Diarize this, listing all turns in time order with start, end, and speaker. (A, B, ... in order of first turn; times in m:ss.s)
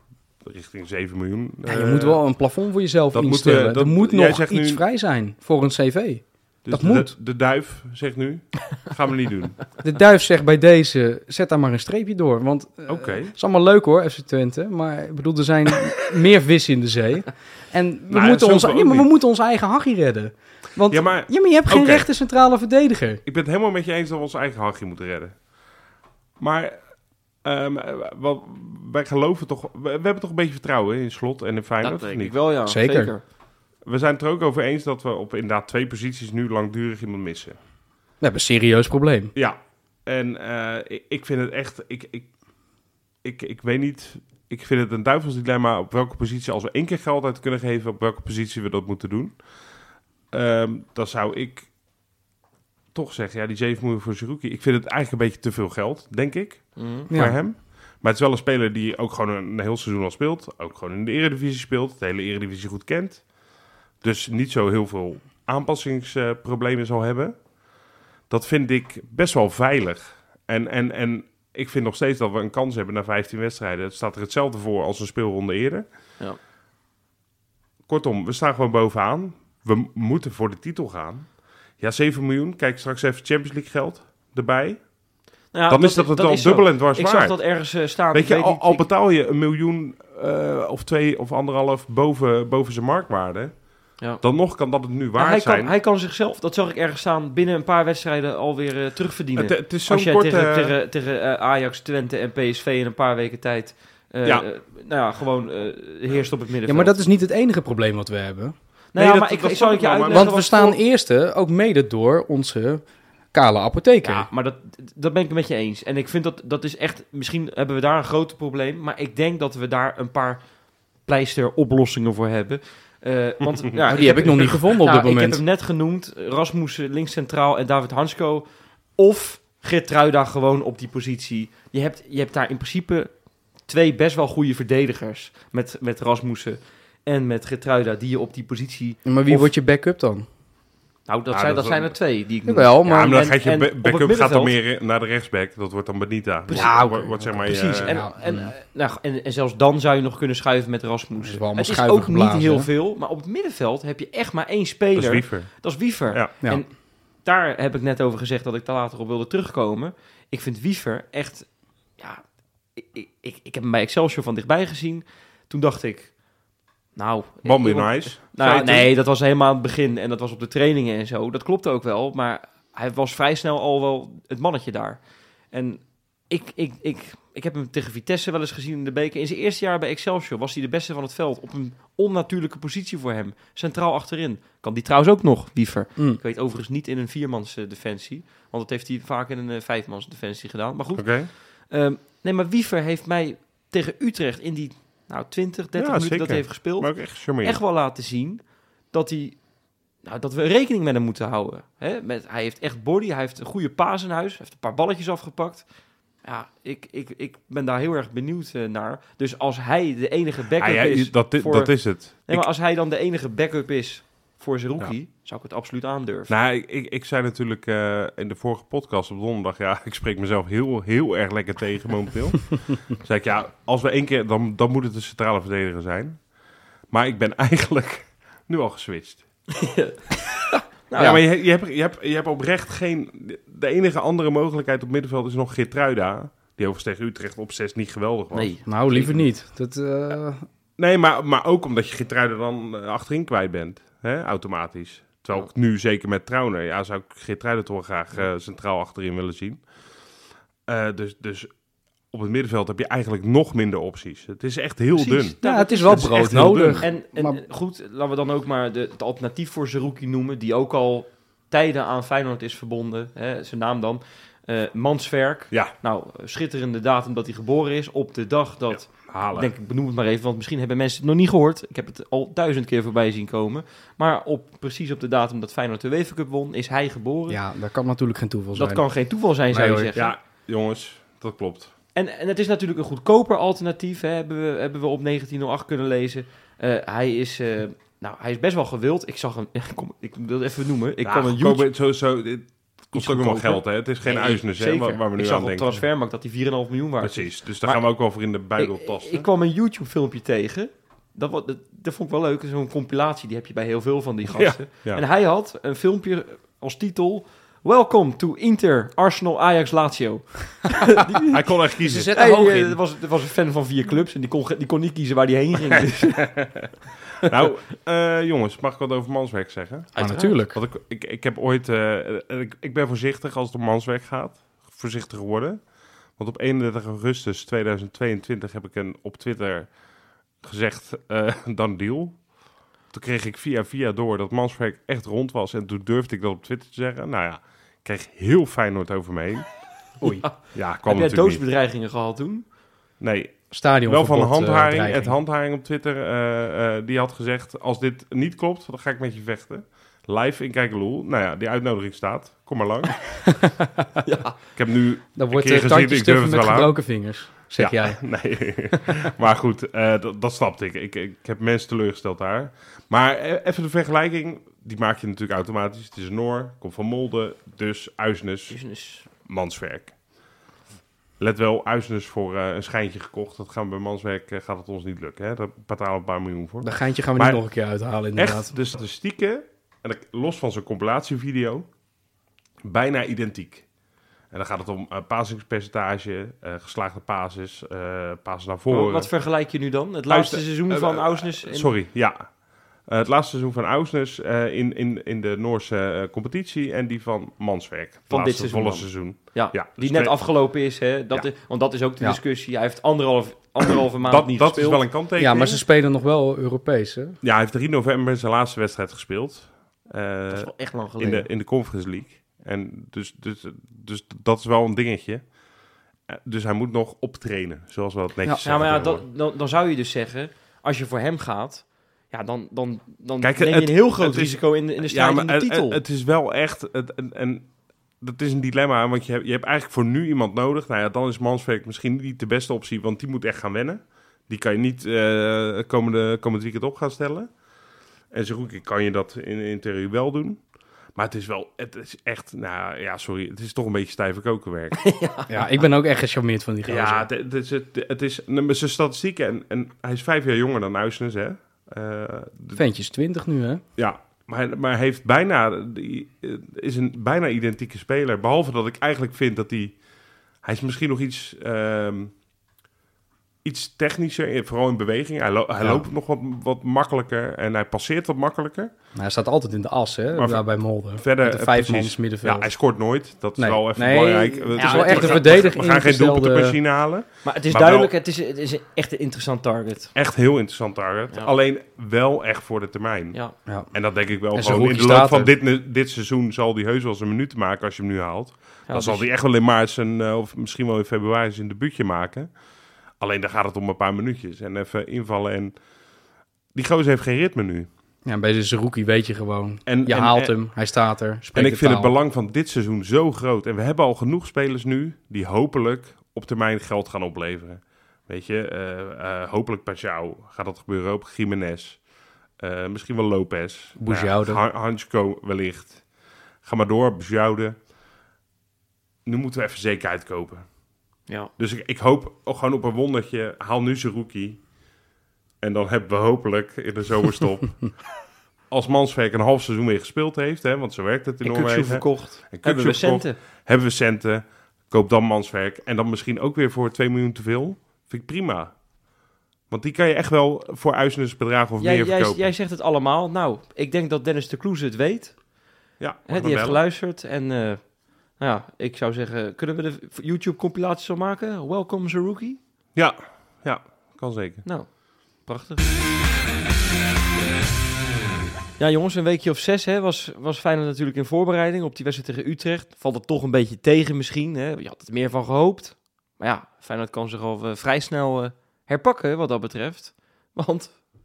0:00.4-0:02.2 A
0:01.6-0:07.1 B
0:03.1-0:04.8 A
0:06.6-0:09.7 A
0:09.8-0:23.2 B
0:12.9-0:13.3 A
0:18.1-0:19.1 A
0:20.9-0:22.1 A
0:23.2-0:25.4 A
0:26.4-0:26.8 A
0:27.4-0:32.4 A
0:31.8-0:33.2 C
0:32.7-0:33.1 B
0:33.9-0:37.6 A
0:38.2-0:39.3 B
0:39.4-0:42.3 A
0:43.2-0:49.4 A
0:50.3-0:51.7 A
0:52.9-1:03.2 A
0:56.8-0:57.1 C
0:57.1-0:57.4 B
1:04.0-1:07.4 A
1:08.3-1:15.9 A
1:17.9-1:24.9 A
1:25.5-1:28.8 C
1:25.7-1:35.7 A
1:35.2-1:47.0 C
1:39.4-1:40.7 A
1:46.7-1:48.5 B
1:48.9-1:50.8 C
1:49.0-1:50.3 A
1:50.1-1:54.3 B
1:54.0-2:00.4 C
2:01.1-2:08.5 C
2:03.9-2:05.4 B
2:09.0-2:13.1 C
2:13.7-2:19.5 C
2:19.0-2:20.3 B
2:21.1-2:24.5 C
2:21.3-2:21.9 A
2:22.5-2:23.2 B
2:22.8-2:28.0 A
2:26.5-2:26.9 C
2:26.5-2:28.5 B
2:27.4-2:42.2 C
2:31.2-2:32.7 B
2:35.0-2:36.3 A
2:42.8-2:46.1 C
2:47.0-3:19.4 C
2:47.4-2:48.9 A
3:11.0-3:11.3 A
3:15.8-3:17.6 A
3:20.0-3:25.6 C
3:26.2-3:36.3 C
3:30.6-3:32.4 A
3:36.3-3:46.2 A
3:46.9-3:49.2 A
3:49.5-3:51.2 C
3:51.0-3:58.5 A
3:58.3-3:59.2 C
3:58.7-4:00.4 B
4:00.8-4:09.6 A
4:10.7-4:11.5 A
4:12.1-4:15.4 A
4:14.9-4:37.4 C
4:15.4-4:17.4 B
4:15.9-4:16.9 A
4:28.8-4:29.5 A
4:37.3-4:38.8 B
4:38.6-4:40.2 C
4:39.5-4:39.9 B
4:40.0-4:41.7 A
4:42.0-4:51.7 C
4:51.0-4:55.8 A
4:52.9-4:57.8 C
4:57.0-4:59.3 A
4:58.6-5:11.4 C
5:04.3-5:05.0 A
5:11.3-5:12.1 A
5:11.8-5:12.8 B
5:12.1-5:16.3 C
5:16.0-5:16.7 A
5:17.2-5:25.6 A
5:20.0-5:20.4 C
5:20.0-5:20.6 B
5:26.2-5:29.7 A
5:30.4-5:32.3 A
5:32.9-5:39.6 A
5:40.0-5:42.4 C
5:40.4-5:41.4 A
5:43.0-5:53.3 A
5:43.5-5:45.2 B
5:53.3-5:53.9 B
5:54.0-5:54.4 C
5:54.5-6:08.6 A
5:55.2-5:58.1 B
6:08.5-6:09.1 C
6:09.2-6:09.9 A
6:11.2-6:17.4 A
6:16.6-6:18.5 B
6:18.2-6:21.7 A
6:22.6-6:23.7 A
6:24.3-6:29.1 A
6:28.7-6:31.7 C
6:30.1-6:40.3 A
6:38.1-6:44.8 C
6:44.0-6:45.6 A
6:45.2-6:47.2 B
6:47.2-6:55.2 A
6:50.3-6:51.3 C
6:56.1-6:59.0 A
6:58.4-7:05.8 C
7:03.2-7:07.5 A
7:08.0-7:17.3 A
7:18.1-7:20.4 A
7:20.9-7:24.8 A
7:24.8-7:25.3 C
7:25.3-7:27.1 B
7:26.6-7:32.6 A
7:32.6-7:33.6 B
7:33.8-7:39.8 A
7:40.4-7:42.1 A
7:43.4-7:48.7 A
7:45.6-7:45.9 B
7:49.0-7:52.5 B
7:50.1-7:57.9 A
7:53.4-7:56.6 B
7:54.6-7:55.4 C
7:57.2-7:59.9 C
8:00.0-8:12.3 A
8:03.5-8:03.7 B
8:04.3-8:05.3 B
8:08.7-8:09.1 C
8:13.0-8:15.6 A
8:16.5-8:17.7 A
8:18.0-8:21.9 B
8:19.7-8:20.4 A
8:21.3-8:31.8 A
8:32.4-8:35.8 A
8:33.8-8:34.4 B
8:36.4-8:37.6 A
8:39.1-8:40.5 A
8:41.4-8:44.5 A
8:45.4-8:47.8 A
8:48.5-8:58.6 A
8:51.2-8:53.2 C
8:59.5-9:02.3 A
9:01.6-9:05.3 C
9:05.8-9:06.6 A
9:06.1-9:12.4 C
9:12.8-9:14.4 A
9:14.4-9:15.7 C
9:18.6-9:30.9 C